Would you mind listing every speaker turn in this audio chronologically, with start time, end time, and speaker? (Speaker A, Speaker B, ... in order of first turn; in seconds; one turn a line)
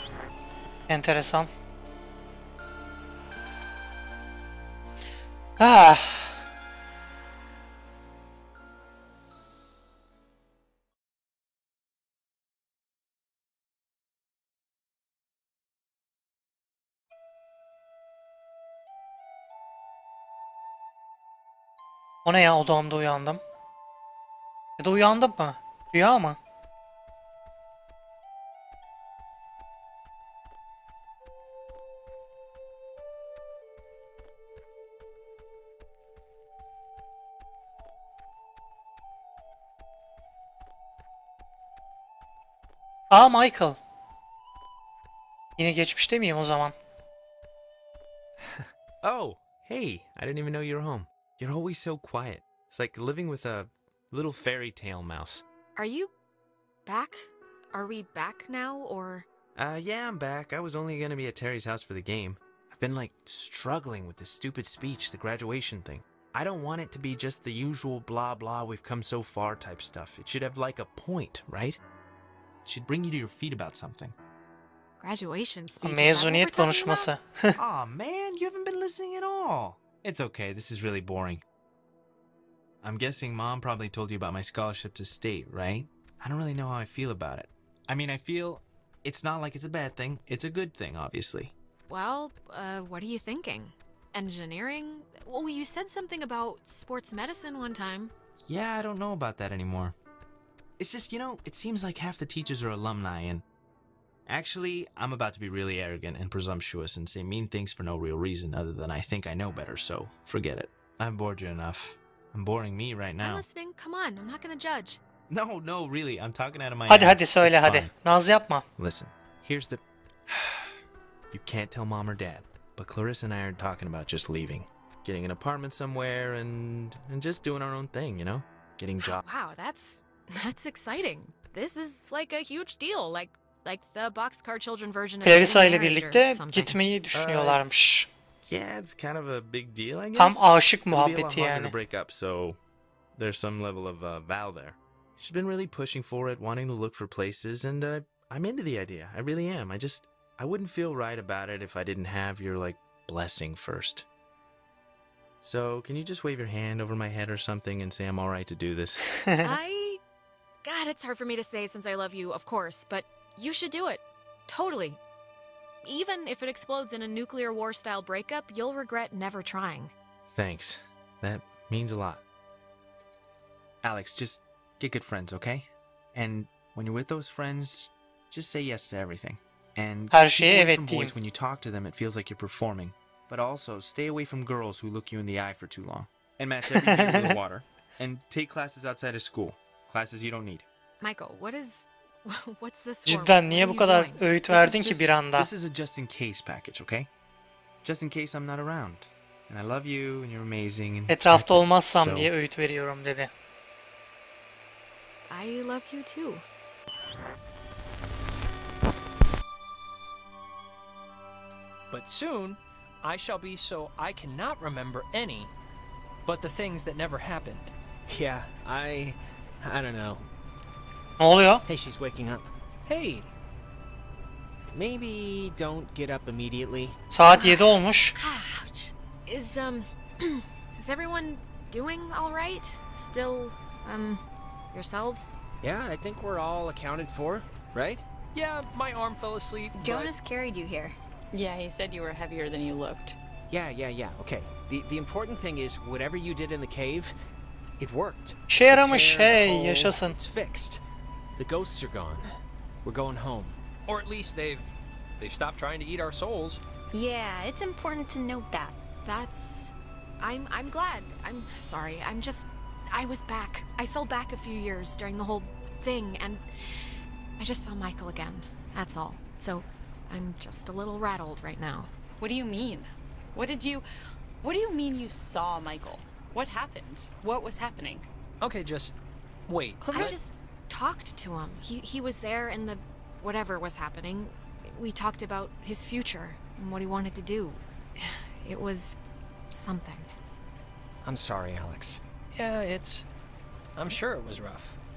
Speaker A: 0.9-1.5
Speaker A: 5.6-6.4
Speaker A: 22.2-23.4
Speaker A: 24.8-26.4
Speaker A: 43.1-43.8
Speaker A: 45.6-46.7
Speaker B: 49.0-55.4
Speaker C: 55.8-56.1
Speaker C: 56.9-59.3
Speaker B: 59.6-71.8
Speaker B: 72.7-74.1
Speaker C: 75.0-77.1
Speaker A: 75.8-77.5
Speaker B: 77.6-81.4
Speaker B: 82.8-91.5
Speaker C: 91.9-98.1
Speaker B: 98.5-100.0
Speaker B: 100.8-103.4
Speaker B: 104.3-113.4
Speaker C: 113.2-115.0
Speaker B: 115.3-117.9
Speaker A: 116.9-118.6
Speaker B: 118.8-120.7
Speaker B: 121.3-129.2
Speaker C: 129.0-136.8
Speaker A: 135.2-138.1
Speaker B: 137.2-137.7
Speaker B: 138.4-142.6
Speaker A: 140.2-141.7
Speaker B: 143.2-154.1
Speaker B: 155.4-159.1
Speaker A: 159.2-159.5
Speaker C: 159.4-160.0
Speaker C: 160.6-165.0
Speaker C: 165.8-169.9
Speaker B: 170.3-172.2
Speaker B: 173.8-190.7
Speaker A: 180.1-181.1
Speaker A: 186.8-187.3
Speaker C: 191.0-194.4
Speaker A: 193.1-195.5
Speaker B: 194.5-197.1
Speaker B: 197.8-202.3
Speaker A: 201.1-203.3
Speaker C: 205.3-206.4
Speaker D: 211.9-215.5
Speaker D: 216.3-217.7
Speaker E: 218.1-220.3
Speaker A: 221.2-221.7
Speaker E: 221.7-222.5
Speaker D: 222.9-223.3
Speaker E: 224.7-227.0
Speaker A: 227.1-228.2
Speaker C: 227.2-235.3
Speaker E: 235.6-238.0
Speaker D: 238.3-240.1
Speaker F: 239.7-241.0
Speaker G: 241.3-243.2
Speaker E: 243.5-247.1
Speaker E: 247.8-250.8
Speaker A: 248.5-250.2
Speaker E: 251.4-252.3
Speaker E: 252.8-253.6
Speaker D: 253.9-256.6
Speaker F: 256.9-258.8
Speaker C: 259.0-271.9
Speaker G: 272.2-273.9
Speaker G: 274.4-278.1
Speaker D: 278.4-278.9
Speaker D: 279.5-280.2
Speaker C: 279.9-289.0
Speaker C: 289.5-290.1
Speaker E: 291.0-292.0
Speaker D: 292.3-293.1
Speaker D: 293.8-294.8